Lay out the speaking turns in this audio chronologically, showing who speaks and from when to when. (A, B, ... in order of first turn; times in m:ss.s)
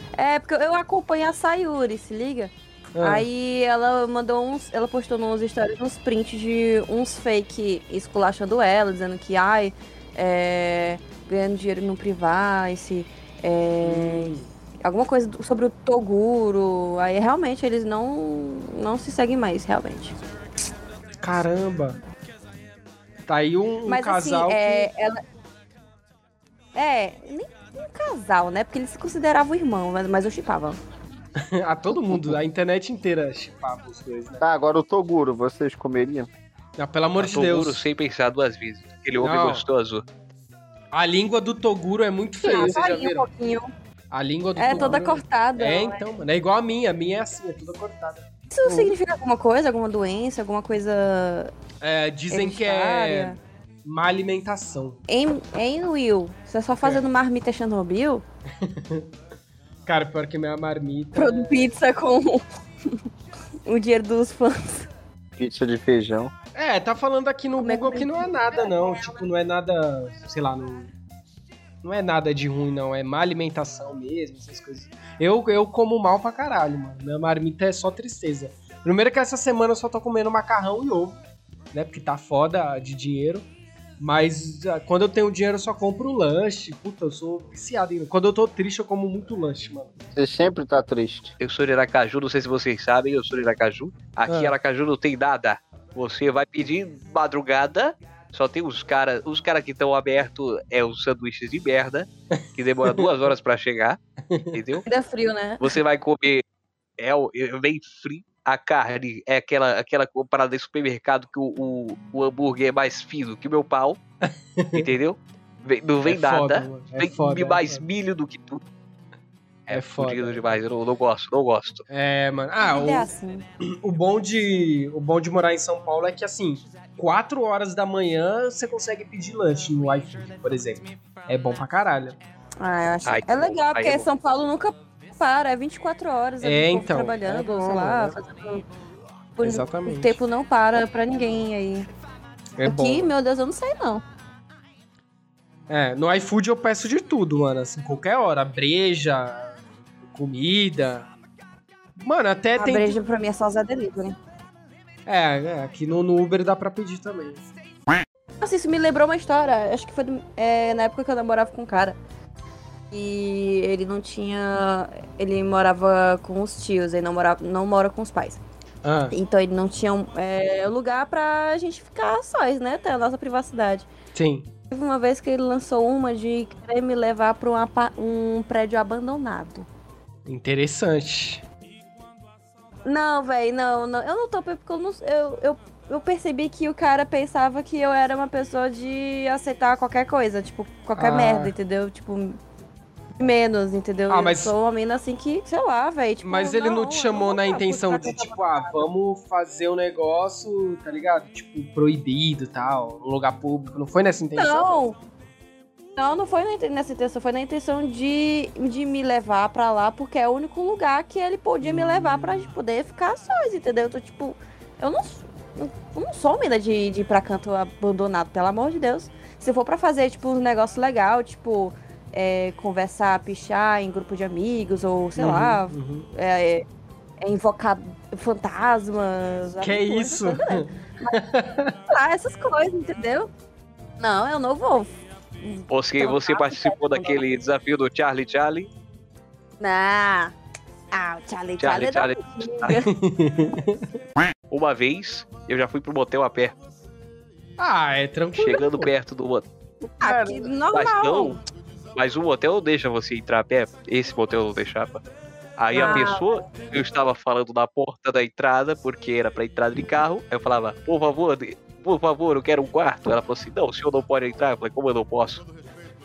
0:00.2-0:20.2 A
0:03.0-0:03.3 B
0:13.8-0:14.5 B
0:21.2-0:22.0 B
0:23.3-0:24.9 B
0:23.9-0:25.2 A
0:26.8-0:30.8 A
0:31.4-0:34.4 B
0:34.4-0:36.3 C
0:36.8-0:37.8 B
0:37.2-0:40.0 D
0:39.2-0:39.7 B
0:40.9-0:43.3 B
0:42.4-0:43.7 A
0:44.1-0:48.9 B
0:44.6-0:46.1 A
0:48.5-0:51.5 A
0:51.8-0:55.0 B
0:52.3-0:53.4 A
0:55.1-0:58.2 A
0:56.8-0:57.1 B
0:58.6-0:59.1 B
0:59.9-1:01.6 B
1:01.2-1:03.0 A
1:03.7-1:04.9 A
1:05.4-1:06.3 C
1:06.6-1:10.9 B
1:07.6-1:09.2 A
1:11.8-1:21.2 B
1:21.7-1:23.5 B
1:24.0-1:30.0 B
1:30.2-1:31.3 C
1:31.4-1:44.0 D
1:34.3-1:34.6 B
1:42.3-1:43.1 B
1:44.3-1:44.6 B
1:44.5-1:44.8 D
1:44.9-1:45.8 A
1:45.6-1:46.4 D
1:47.0-1:54.0 D
1:54.2-1:54.9 B
1:54.7-1:58.6 D
1:56.0-1:57.8 B
1:59.7-2:00.6 B
1:59.7-2:01.8 D
2:01.9-2:03.1 B
2:02.6-2:03.4 A
2:03.6-2:12.2 B
2:12.6-2:18.6 A
2:13.1-2:14.1 D
2:16.4-2:18.2 B
2:19.4-2:21.9 A
2:19.4-2:20.2 B
2:22.6-2:23.1 B
2:22.6-2:24.0 A
2:25.7-2:29.6 B
2:30.1-2:31.1 B
2:32.0-2:33.0 B
2:32.6-2:34.2 A
2:35.1-2:37.4 B
2:38.4-2:42.0 A
2:42.9-2:48.4 A
2:48.8-2:49.2 B
2:49.1-2:53.9 A
2:54.1-2:54.5 B
2:54.7-2:59.7 A
3:00.3-3:01.4 B
3:02.8-3:12.4 A
3:11.0-3:11.5 B
3:13.2-3:18.8 A
3:14.1-3:14.5 B
3:16.2-3:24.7 B
3:24.4-3:25.0 A
3:26.0-3:46.6 A
3:31.6-3:32.5 B
3:45.2-3:46.1 B
3:47.2-3:51.1 A
3:49.6-3:51.8 B
3:51.9-3:53.3 A
3:54.0-3:57.2 A
3:55.7-3:58.7 D
3:59.6-4:00.4 A
4:00.9-4:02.9 A
4:01.6-4:02.8 D
4:02.9-4:03.9 B
4:04.5-4:06.6 D
4:07.6-4:08.9 B
4:08.4-4:09.5 D
4:10.0-4:11.4 A
4:10.0-4:10.4 B
4:10.7-4:11.4 D
4:12.0-4:15.0 D
4:15.6-4:25.5 D
4:15.7-4:16.6 A
4:15.7-4:16.1 B